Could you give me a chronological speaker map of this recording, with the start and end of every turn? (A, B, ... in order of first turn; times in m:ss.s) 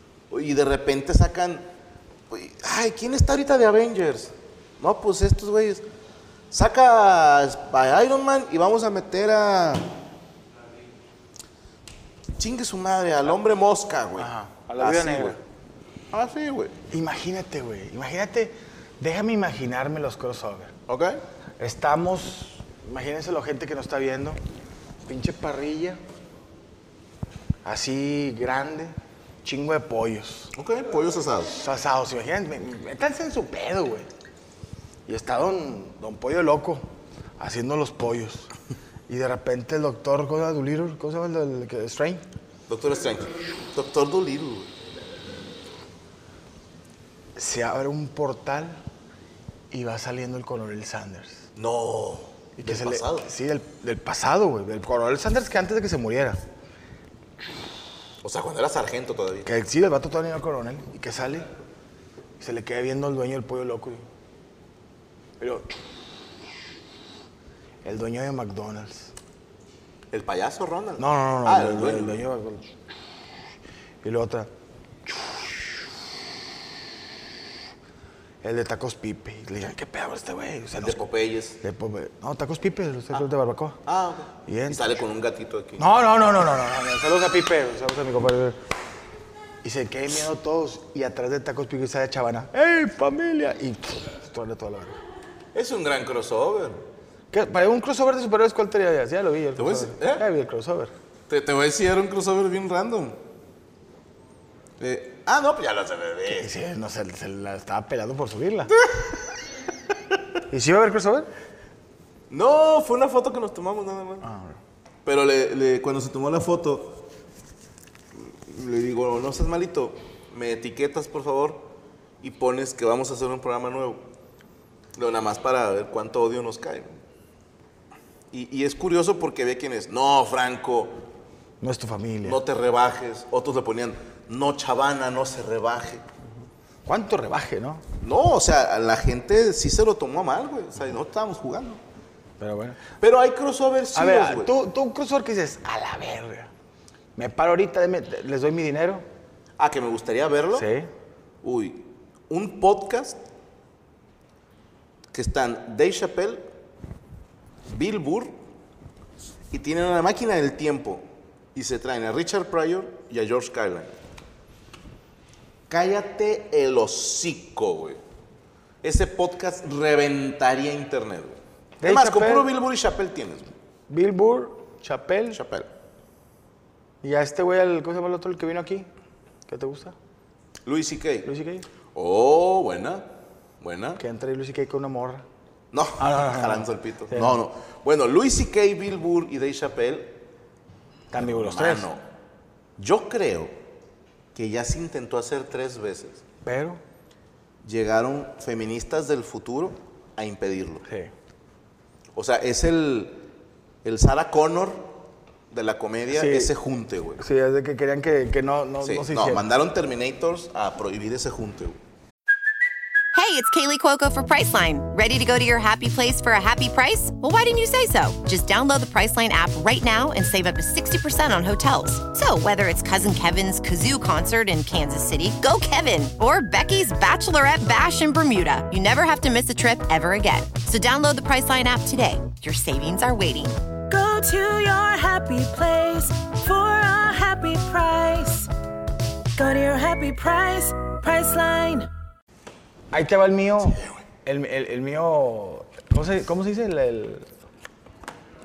0:00.3-0:01.7 A
0:02.3-0:05.8 A
0:06.5-0:09.9 A
0:12.4-0:15.4 A
0:14.2-0:15.4 B
0:16.1-0:16.8 A
0:16.9-0:20.7 B
0:20.9-0:21.2 A
0:21.6-0:24.4 B
0:25.0-0:26.0 B
0:27.6-0:30.5 B
0:30.5-0:31.6 A
0:31.6-0:34.1 B
0:35.1-0:36.8 B
0:37.4-0:38.5 B
0:39.1-0:42.2 B
0:42.7-0:44.7 A
0:47.4-0:48.8 B
0:49.7-0:51.4 B
0:51.6-0:53.3 A
0:52.6-0:56.4 B
0:58.2-0:59.5 A
0:59.4-1:01.5 B
1:02.4-1:04.0 B
1:05.4-1:05.8 B
1:07.8-1:09.1 B
1:10.1-1:12.2 A
1:11.0-1:12.8 B
1:14.0-1:14.5 B
1:15.0-1:15.8 B
1:18.4-1:21.0 B
1:20.8-1:21.6 A
1:21.6-1:23.8 B
1:23.8-1:25.9 A
1:24.4-1:25.0 B
1:25.8-1:28.6 B
1:29.6-1:35.0 B
1:35.5-1:36.8 A
1:37.3-1:40.9 B
1:39.6-1:40.2 A
1:41.3-1:43.2 A
1:44.8-1:46.5 A
1:46.3-1:48.8 B
1:50.5-1:51.3 B
1:52.3-1:54.3 A
1:54.2-1:54.6 B
1:55.0-1:57.1 A
1:58.1-2:04.1 A
2:05.0-2:06.9 A
2:08.3-2:11.0 A
2:11.6-2:12.4 B
2:12.2-2:16.0 A
2:16.8-2:17.8 B
2:18.0-2:21.8 A
2:22.4-2:22.8 B
2:23.0-2:24.5 A
2:23.9-2:26.5 B
2:27.2-2:29.0 B
2:29.6-2:30.7 A
2:30.5-2:30.9 B
2:31.4-2:33.2 A
2:35.1-2:36.4 A
2:37.7-2:38.4 A
2:39.5-2:43.9 A
2:45.7-2:48.0 A
2:48.8-2:53.5 A
2:51.8-2:52.5 B
2:53.9-2:55.4 B
2:55.3-2:55.7 A
2:57.0-2:58.9 B
2:59.5-2:59.9 B
3:00.6-3:01.3 A
3:01.2-3:01.7 B
3:01.9-3:03.1 A
3:03.6-3:04.0 A
3:04.0-3:05.2 B
3:05.7-3:10.2 A
3:06.0-3:07.4 B
3:11.1-3:11.9 B
3:11.1-3:12.0 A
3:12.8-3:13.6 A
3:14.3-3:16.2 A
3:16.4-3:16.8 B
3:17.6-3:20.8 A
3:22.1-3:23.2 A
3:23.8-3:25.0 A
3:25.5-3:27.2 A
3:26.1-3:26.5 B
3:27.2-3:29.4 B
3:28.8-3:31.8 A
3:33.1-3:53.6 C
3:53.9-3:58.5 D
3:59.4-4:01.9 D
4:02.9-4:07.3 B